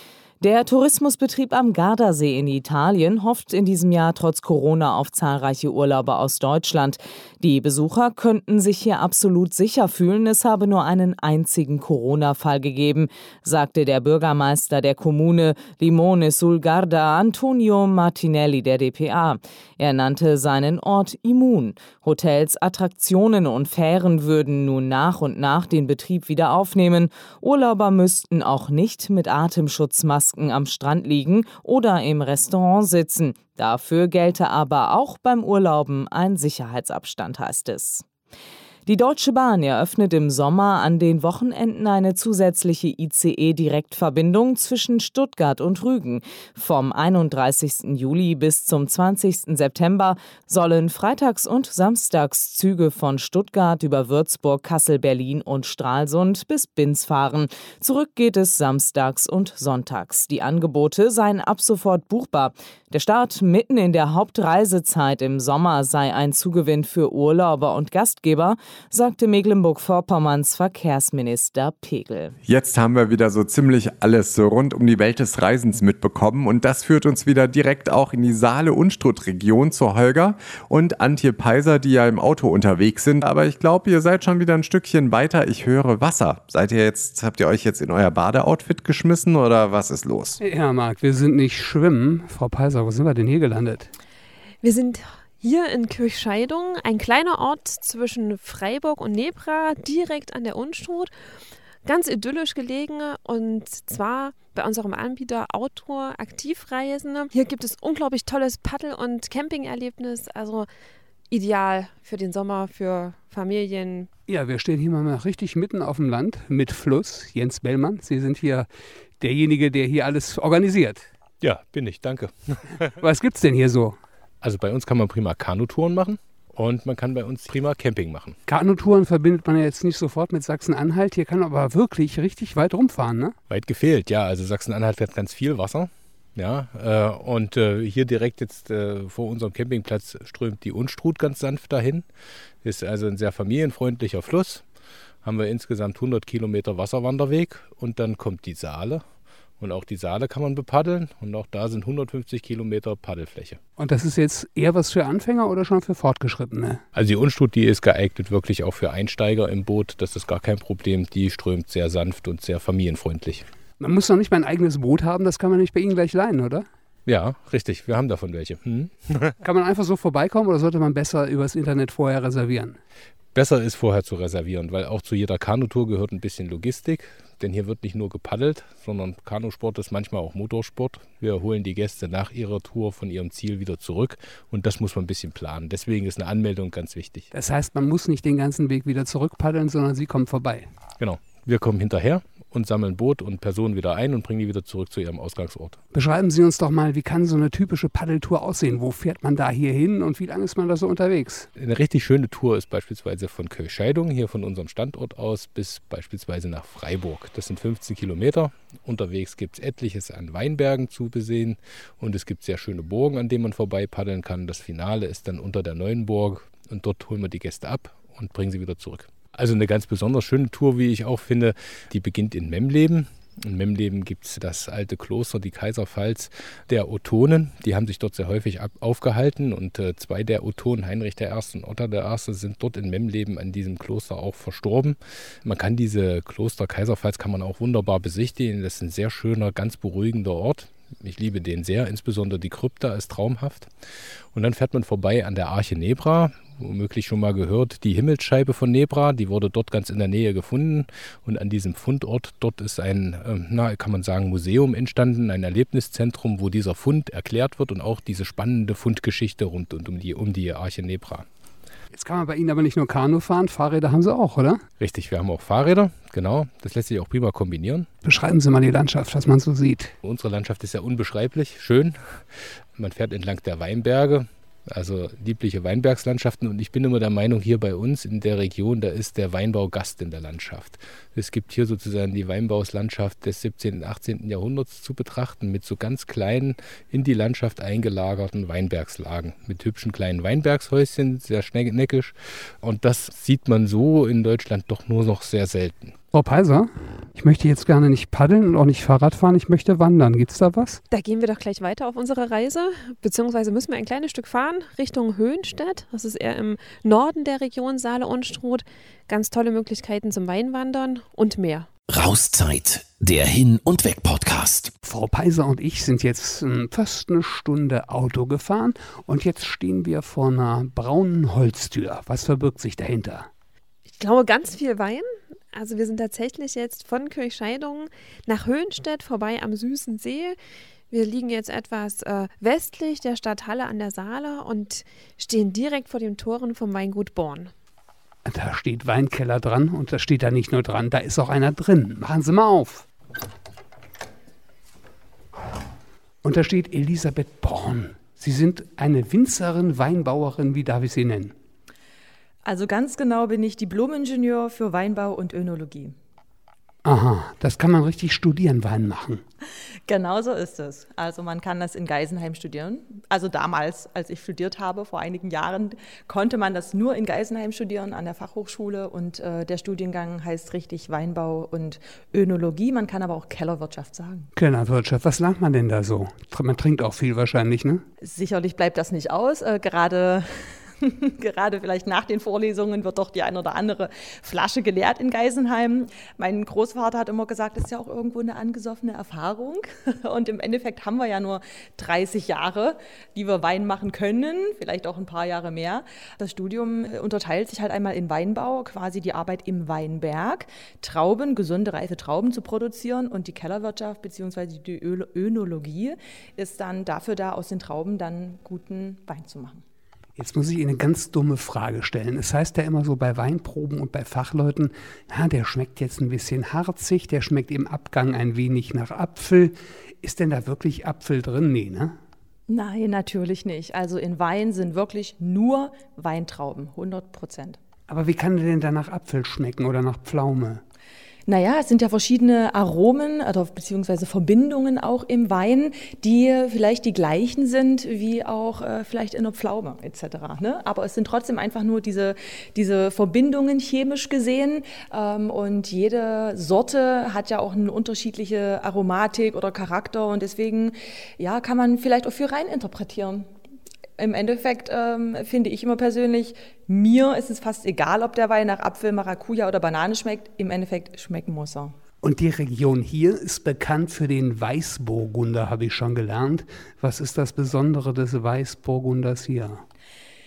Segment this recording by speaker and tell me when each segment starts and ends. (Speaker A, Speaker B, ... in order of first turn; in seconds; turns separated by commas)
Speaker A: 0.4-38.1, Speaker A: 38.9-72.3, Speaker B: 72.5-90.4, Speaker C: 90.4-93.9, Speaker D: 94.6-101.1, Speaker D: 101.8-110.7, Speaker D: 111.3-114.1, Speaker C: 114.3-118.7, Speaker C: 119.2-121.1, Speaker E: 121.4-123.0, Speaker C: 123.0-124.0, Speaker E: 124.4-128.4, Speaker C: 128.5-133.4, Speaker E: 133.5-142.1, Speaker E: 142.6-144.7, Speaker E: 145.2-149.1, Speaker E: 149.6-153.6, Speaker C: 153.8-156.8, Speaker E: 156.9-163.5, Speaker C: 163.8-166.7, Speaker E: 167.1-169.4, Speaker C: 169.4-172.8, Speaker E: 173.3-187.3, Speaker C: 187.3-190.7, Speaker E: 191.0-195.8, Speaker C: 195.9-201.5, Speaker E: 201.6-243.7, Speaker E: 244.3-261.3, Speaker C: 261.9-264.6, Speaker E: 264.8-267.9, Speaker C: 268.0-269.9, Speaker E: 270.0-295.9, Speaker C: 296.1-300.8, Speaker D: 300.9-311.7, Speaker F: 311.9-314.7, Speaker C: 314.8-323.3, Speaker D: 324.0-330.4, Speaker D: 330.9-337.5, Speaker C: 338.2-342.9, Speaker C: 346.2-351.3, Speaker G: 352.4-356.0, Speaker C: 356.9-359.2, Speaker G: 359.9-374.3, Speaker C: 374.4-377.8, Speaker G: 378.0-409.6, Speaker C: 410.2-422.0, Speaker G: 422.5-427.6, Speaker C: 427.9-430.6, Speaker G: 431.3-453.3, Speaker G: 454.0-461.8, Speaker C: 462.0-469.6